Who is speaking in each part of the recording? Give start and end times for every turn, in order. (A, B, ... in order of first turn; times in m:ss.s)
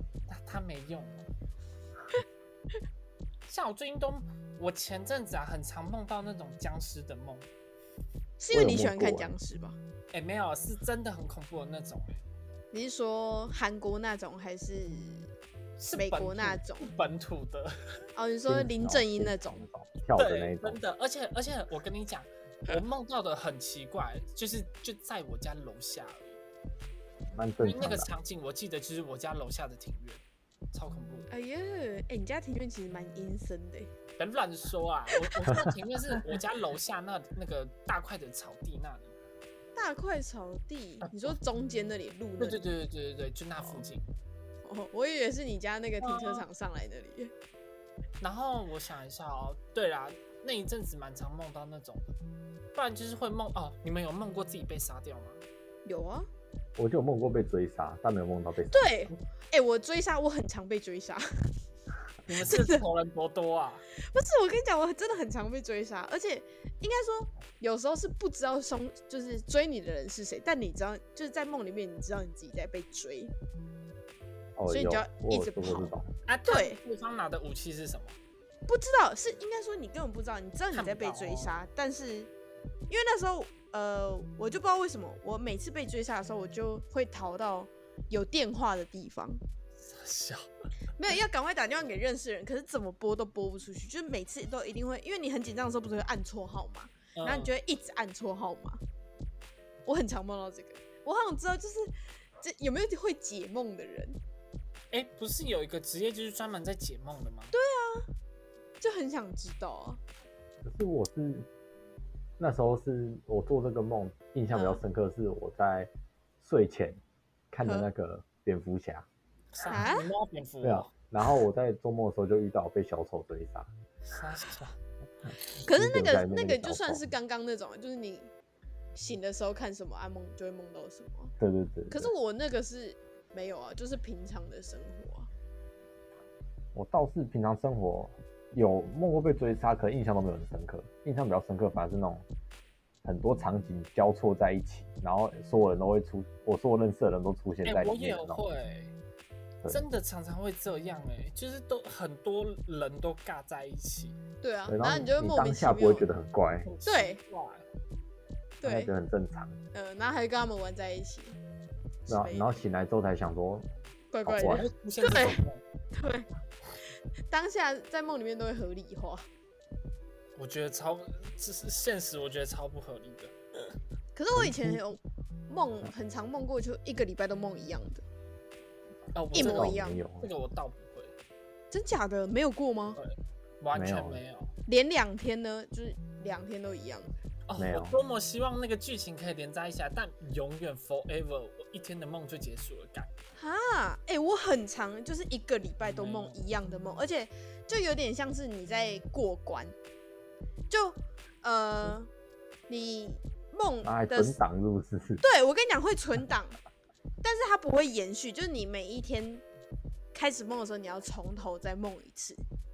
0:00.3-0:01.3 A
0:03.5-0:07.5 A
0:08.4-0:09.8 B
0:08.5-0:09.3 C
0:10.1-0:12.2 A
0:12.7-0:15.3 B
0:15.8-0:17.8 A
0:15.9-0:16.9 B
0:18.2-0:19.6 B
0:18.5-0:20.8 C
0:20.1-0:26.4 A
0:27.3-0:28.1 C
0:27.6-0:30.2 A
0:30.7-0:31.3 A
0:31.3-0:33.9 B
0:34.2-0:39.1 A
0:35.2-0:35.5 B
0:39.8-0:42.6 B
0:41.0-0:41.4 A
0:42.4-0:44.1 A
0:44.6-0:47.3 B
0:46.0-0:46.4 A
0:48.2-0:52.1 A
0:52.8-0:55.4 A
0:55.8-0:56.3 B
0:56.8-0:59.0 C
0:58.7-1:01.2 B
1:02.2-1:03.8 A
1:02.5-1:02.8 B
1:04.0-1:13.3 B
1:14.6-1:16.1 C
1:14.7-1:15.9 B
1:16.3-1:18.2 A
1:16.4-1:16.8 B
1:18.7-1:22.3 B
1:20.7-1:21.6 A
1:22.9-1:29.4 B
1:29.8-1:30.5 A
1:31.0-1:38.8 B
1:37.2-1:37.5 A
1:39.8-1:44.2 B
1:44.9-1:47.5 A
1:47.5-1:48.1 B
1:48.8-1:50.0 B
1:50.6-1:51.5 C
1:52.4-1:55.9 C
1:54.5-1:54.8 B
1:56.4-1:57.0 C
1:57.5-1:59.1 C
1:57.6-1:57.9 B
1:59.5-2:00.9 A
1:59.6-2:00.1 B
2:00.6-2:03.7 C
2:04.1-2:04.8 A
2:05.6-2:08.3 B
2:05.6-2:07.1 C
2:08.9-2:11.3 B
2:11.4-2:12.1 C
2:11.9-2:15.3 B
2:16.7-2:22.2 C
2:23.0-2:28.5 C
2:27.6-2:28.9 A
2:29.7-2:34.2 A
2:34.4-2:36.1 B
2:34.7-2:36.7 C
2:36.6-2:37.6 A
2:36.8-2:37.2 B
2:38.6-2:38.9 B
2:38.6-2:39.6 C
2:39.7-2:41.4 B
2:42.1-2:42.6 B
2:42.1-2:43.7 C
2:44.1-2:46.3 B
2:44.2-2:44.7 C
2:44.4-2:45.6 A
2:47.3-2:49.2 B
2:50.4-2:53.3 A
2:54.2-2:58.0 B
2:54.4-2:54.8 C
2:59.1-3:01.1 A
2:59.3-3:00.3 C
2:59.3-3:00.0 B
3:01.7-3:03.0 B
3:03.0-3:04.5 A
3:03.7-3:04.2 C
3:04.6-3:07.2 B
3:07.5-3:13.1 A
3:07.6-3:08.0 C
3:13.4-3:19.8 B
3:15.8-3:16.4 A
3:20.7-3:22.1 B
3:22.7-3:24.4 B
3:23.8-3:25.2 C
3:25.2-3:26.6 B
3:27.2-3:29.4 B
3:30.1-3:32.4 B